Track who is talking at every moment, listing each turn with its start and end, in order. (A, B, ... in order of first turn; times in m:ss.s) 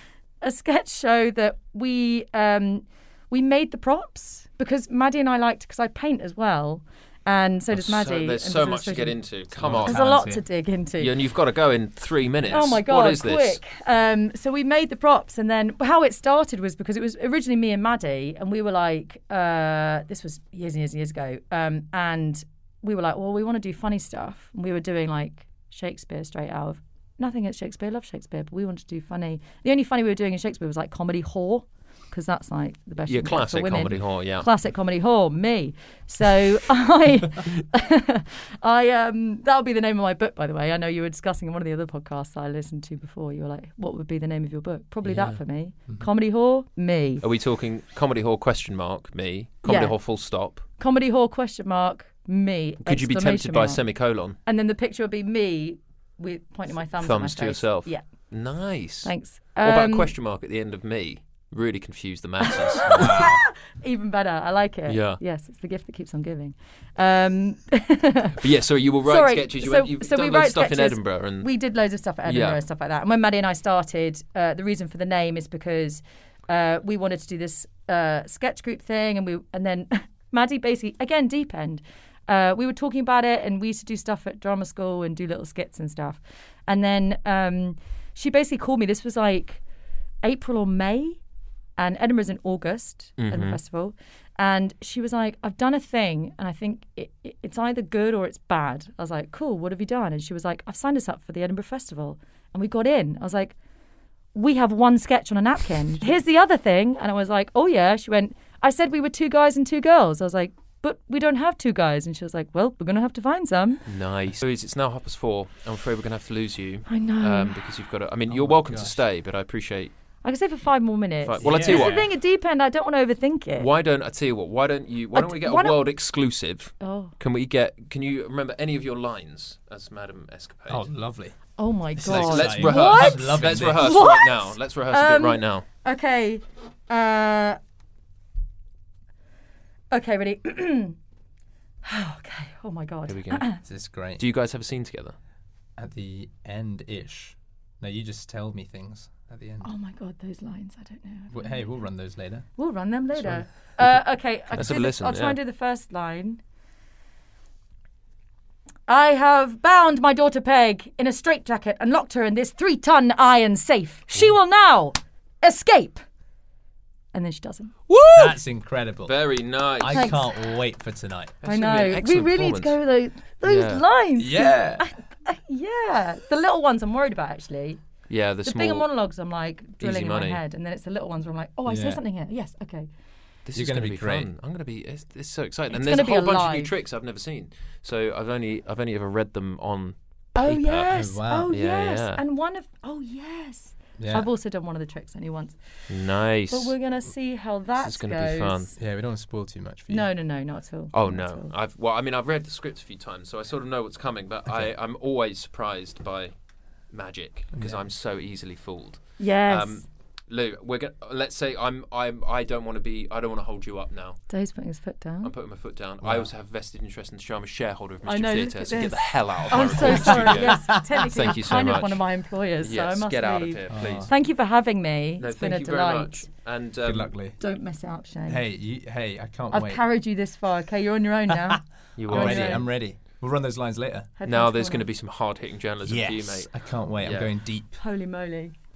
0:00.4-0:09.2 A
0:07.7-0:10.2 B
0:09.5-0:10.4 C
0:09.8-0:11.1 A
0:11.0-0:13.6 B
0:12.5-0:47.2 A
0:33.1-0:34.5 B
0:45.0-0:45.4 B
0:47.2-0:50.6 B
0:49.6-0:50.0 A
0:50.8-0:58.3 A
0:52.8-0:54.4 B
0:57.0-1:03.3 B
0:59.0-1:00.1 A
1:02.5-1:08.4 A
1:02.9-1:03.4 C
1:04.8-1:05.2 B
1:08.4-1:11.5 B
1:09.0-1:29.6 A
1:12.2-1:12.6 B
1:30.2-1:31.2 A
1:31.8-1:43.6 A
1:33.2-1:33.6 B
1:44.3-1:53.8 A
1:53.8-1:59.9 B
1:56.9-1:57.6 A
1:58.3-1:59.0 C
2:00.2-2:03.7 A
2:01.2-2:02.1 B
2:01.4-2:02.1 C
2:03.6-2:10.9 B
2:05.1-2:05.8 A
2:06.8-2:07.1 A
2:10.7-2:14.0 C
2:11.6-2:17.6 A
2:12.0-2:15.6 B
2:19.9-2:21.0 A
2:21.8-2:23.6 A
2:23.1-2:23.6 B
2:23.6-2:24.2 C
2:24.2-2:25.2 B
2:25.8-2:29.7 C
2:29.6-2:31.7 A
2:31.3-2:32.5 C
2:32.6-2:36.4 A
2:33.1-2:33.4 C
2:34.5-2:35.4 B
2:38.9-2:46.0 A
2:47.1-2:47.7 A
2:47.9-2:48.4 B
2:48.1-2:51.4 C
2:49.0-2:50.2 B
2:49.9-2:50.2 A
2:51.4-2:52.8 B
2:51.4-2:57.8 A
2:53.4-2:53.8 B
2:54.2-2:54.9 C
2:58.1-2:58.9 B
2:58.4-3:02.9 A
2:59.8-3:00.4 B
3:01.6-3:02.0 C
3:03.4-3:10.9 B
3:03.5-3:04.3 C
3:05.7-3:06.7 A
3:10.3-3:15.6 A
3:10.9-3:11.5 C
3:11.5-3:12.2 B
3:14.0-3:14.3 C
3:15.9-3:16.7 B
3:16.5-3:18.7 A
3:17.8-3:18.7 B
3:18.8-3:20.1 C
3:19.9-3:21.5 A
3:20.9-3:26.3 B
3:26.9-3:34.2 B
3:27.5-3:27.8 C
3:29.2-3:29.8 A
3:34.3-3:35.3 A
3:35.2-3:42.1 B
3:36.0-3:36.3 C
3:38.0-3:46.2 A
3:39.5-3:41.3 C
3:42.6-3:44.1 B
3:43.7-3:44.1 C
3:45.2-3:47.1 B
3:46.8-3:47.4 C
3:47.4-3:48.4 A
3:48.3-3:49.8 C
3:49.5-3:52.6 A
3:51.3-3:54.1 C
3:52.0-3:52.7 B
3:54.2-3:54.8 A
3:54.2-3:57.3 B
3:55.8-3:57.8 C
3:57.8-3:58.5 A